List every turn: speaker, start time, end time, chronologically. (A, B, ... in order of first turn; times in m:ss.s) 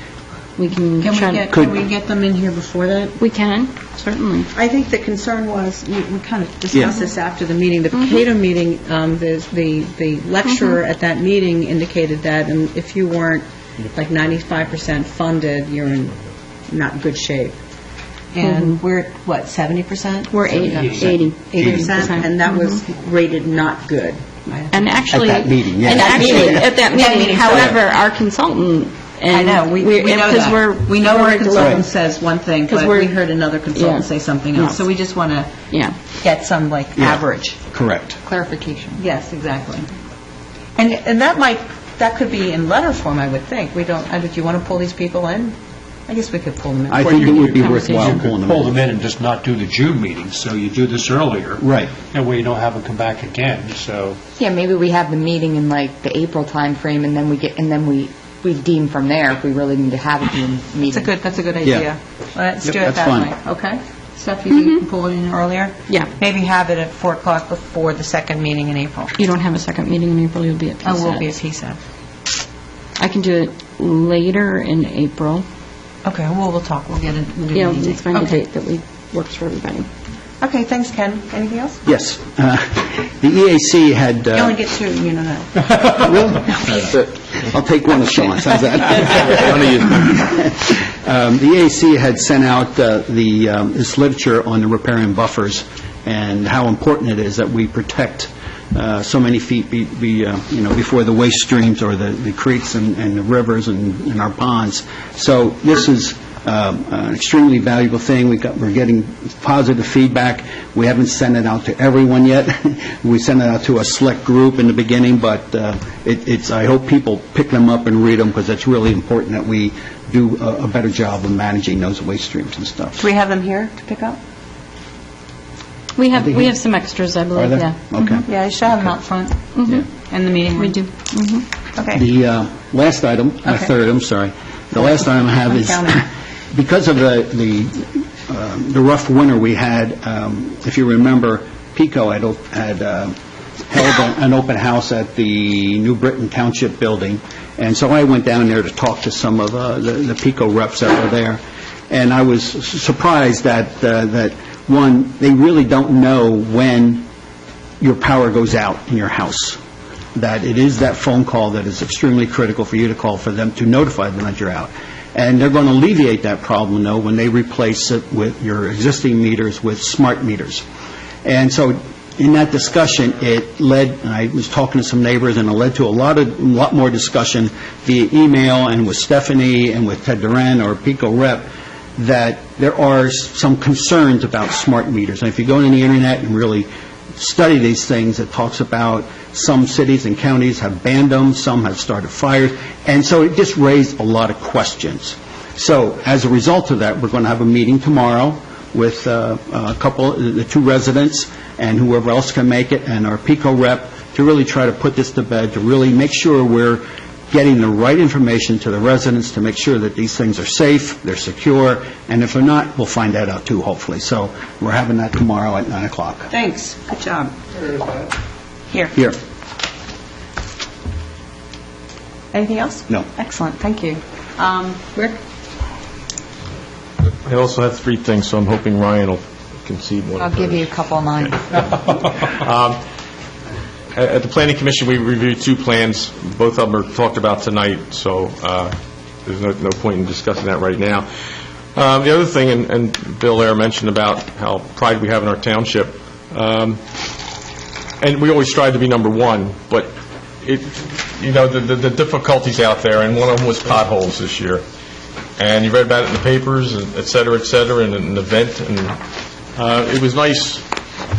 0:00.6-0:01.5 A
0:01.0-0:03.2 B
0:01.5-0:01.8 C
0:03.2-0:04.5 A
0:04.5-0:17.6 B
0:10.5-0:10.8 A
0:18.3-0:25.0 B
0:18.4-0:18.8 A
0:20.3-0:22.8 A
0:20.5-0:21.2 D
0:21.6-0:22.1 C
0:24.7-0:31.9 A
0:25.1-0:26.7 C
0:25.8-0:27.8 B
0:29.3-0:35.6 B
0:31.6-0:31.8 C
0:32.7-0:33.2 A
0:33.7-0:34.8 A
0:35.7-0:36.0 A
0:36.2-0:37.6 B
0:37.7-0:38.2 C
0:38.2-0:39.0 E
0:39.0-0:39.9 B
0:40.8-0:45.6 B
0:46.1-0:47.1 B
0:46.9-0:48.8 C
0:47.0-0:54.2 D
0:47.1-0:48.2 A
0:51.6-0:51.9 C
0:54.4-1:01.1 E
1:00.9-1:09.1 B
1:02.6-1:03.3 C
1:04.5-1:04.8 A
1:09.2-1:11.4 A
1:10.8-1:11.8 B
1:13.0-1:15.5 A
1:16.0-1:18.4 B
1:17.5-1:19.9 A
1:20.4-1:21.8 B
1:21.8-1:24.6 C
1:24.3-1:26.3 B
1:25.9-2:03.1 C
2:03.0-2:04.2 B
2:06.0-2:08.2 A
2:06.1-2:06.6 C
2:07.4-2:08.3 C
2:08.2-2:10.9 B
2:09.6-2:09.9 A
2:10.6-2:11.4 A
2:11.8-2:12.0 B
2:11.9-2:23.2 C
2:13.4-2:13.7 B
2:14.8-2:16.0 B
2:23.7-2:37.1 C
2:37.8-2:39.6 C
2:40.2-2:50.6 C
2:51.2-3:36.3 C
3:36.3-3:37.3 B
3:38.7-3:39.0 B
3:42.3-3:45.2 B
3:47.2-3:52.8 F
3:50.2-3:51.7 E
3:54.0-3:58.7 F
3:59.2-4:01.1 F
4:01.8-4:06.8 F
4:08.0-4:14.6 F
4:15.4-4:19.0 F
4:19.6-4:20.6 F